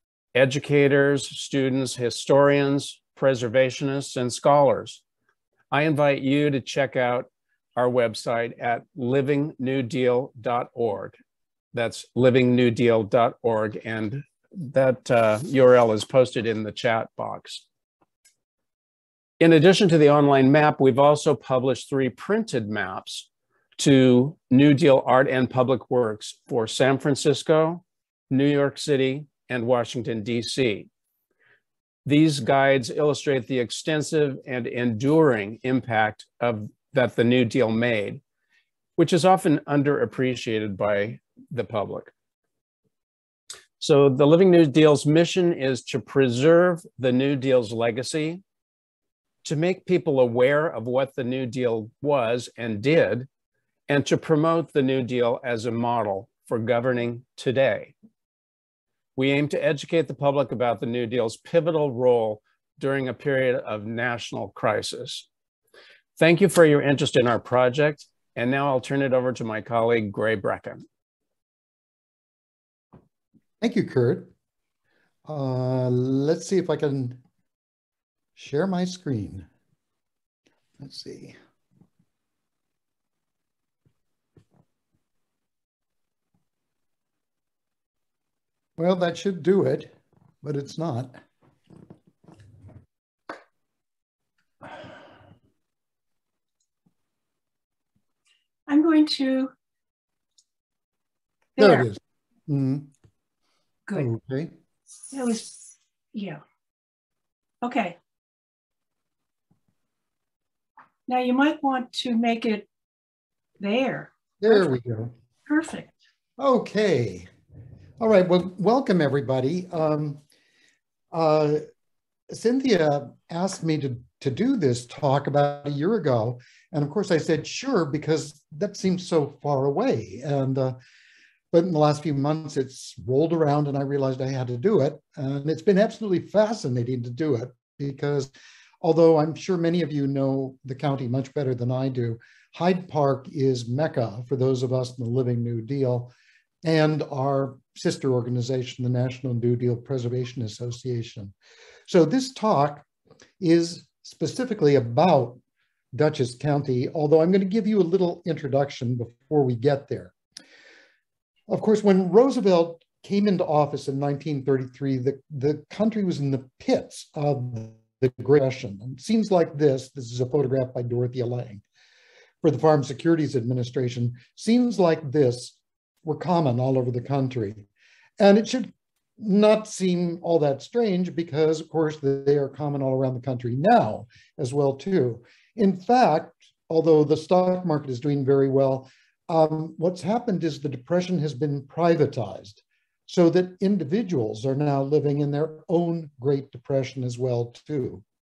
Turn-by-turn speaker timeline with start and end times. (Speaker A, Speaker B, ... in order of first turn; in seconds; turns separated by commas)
Speaker A: 0.3-5.0, Speaker A: 5.7-11.2, Speaker A: 11.7-17.6, Speaker A: 19.4-23.3, Speaker A: 23.8-30.9, Speaker A: 32.0-38.2, Speaker A: 39.0-42.1, Speaker A: 43.8-48.4, Speaker A: 49.4-53.3, Speaker A: 53.9-57.9, Speaker A: 59.1-65.2, Speaker A: 66.2-70.8, Speaker B: 73.6-74.3, Speaker B: 75.2-77.2, Speaker B: 78.3-79.5, Speaker B: 80.8-81.3, Speaker B: 88.8-91.2, Speaker C: 98.7-99.5, Speaker C: 101.6-101.9, Speaker B: 101.6-102.9, Speaker B: 103.9-104.5, Speaker C: 105.1-106.4, Speaker C: 107.6-108.0, Speaker C: 111.1-112.7, Speaker C: 113.6-114.7, Speaker B: 114.4-115.1, Speaker C: 115.5-115.9, Speaker B: 116.4-117.3, Speaker B: 118.0-120.2, Speaker B: 121.1-121.6, Speaker B: 122.3-130.8, Speaker B: 131.5-138.3, Speaker B: 138.8-146.1, Speaker B: 146.6-151.3, Speaker B: 151.9-152.8, Speaker B: 153.4-155.4, Speaker B: 155.9-160.1, Speaker B: 161.5-171.6, Speaker B: 172.4-177.7, Speaker B: 178.2-198.0